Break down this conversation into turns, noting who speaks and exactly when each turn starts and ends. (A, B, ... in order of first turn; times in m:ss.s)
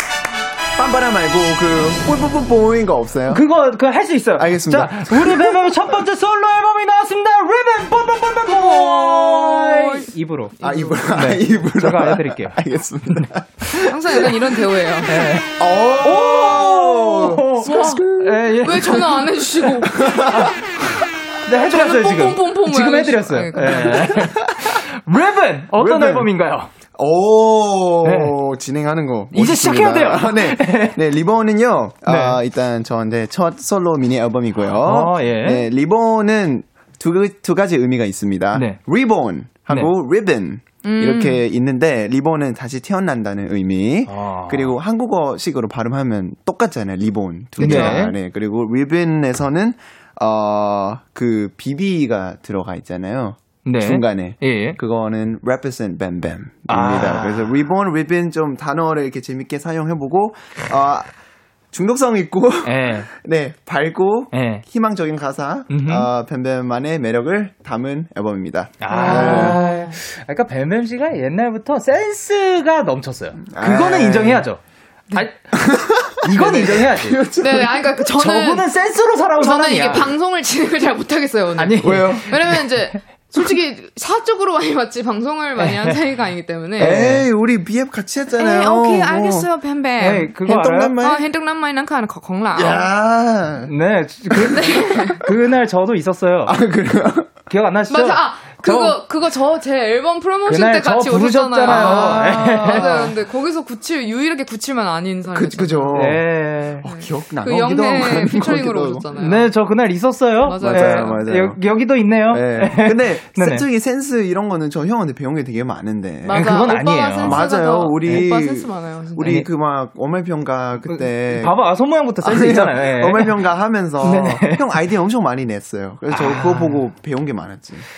0:00.8-0:03.4 A
0:03.3-0:12.6 B
0:04.4-0:05.6 A
0:08.5-0:10.1 C
0:10.6-0:11.0 C
0:10.6-0:14.6 A
0:13.8-0:15.2 C
0:15.0-0:19.2 B
0:15.5-0:19.1 A
0:17.6-0:18.0 C
0:18.6-0:20.4 C
0:19.8-0:20.5 A
0:20.3-0:20.5 B
0:21.4-0:26.7 B
0:21.7-0:24.3 C
0:23.7-0:24.7 A
0:25.7-0:26.3 A
0:26.9-1:01.1 A
0:28.0-0:28.4 B
0:29.3-0:31.0 B
0:32.0-0:32.4 B
0:34.6-0:35.7 B
0:38.5-0:38.8 B
0:40.8-0:41.4 C
0:44.0-0:44.8 B
0:47.6-0:48.0 C
0:47.6-0:48.1 B
0:53.6-0:54.8 B
0:56.7-0:57.6 B
1:01.7-1:09.6 A
1:02.6-1:03.1 B
1:04.3-1:04.6 B
1:05.7-1:06.1 B
1:08.8-1:14.6 B
1:08.9-1:09.9 C
1:13.4-1:14.4 A
1:15.1-1:15.4 B
1:15.5-1:17.9 A
1:16.1-1:17.2 B
1:17.4-1:18.7 C
1:18.2-1:20.1 B
1:19.4-1:27.2 C
1:21.6-1:22.6 B
1:21.8-1:22.4 A
1:25.6-1:26.0 B
1:26.8-1:29.5 A
1:28.4-1:30.4 C
1:30.0-1:31.0 B
1:30.4-1:31.2 A
1:31.0-1:32.9 C
1:32.5-1:33.7 A
1:33.6-1:36.6 B
1:34.5-1:35.2 C
1:36.4-1:37.3 A
1:37.5-1:39.0 B
1:37.9-1:46.1 C
1:40.4-1:43.1 B
1:41.6-1:43.1 A
1:45.3-1:46.2 A
1:45.9-1:46.8 B
1:46.8-1:49.0 A
1:46.8-1:49.5 C
1:49.2-1:53.6 B
1:50.4-1:51.2 C
1:50.6-1:51.6 A
1:52.3-2:01.6 A
1:56.2-1:59.4 C
1:56.3-1:57.4 B
2:00.9-2:03.4 B
2:02.2-2:07.8 A
2:04.0-2:04.7 B
2:06.1-2:06.8 B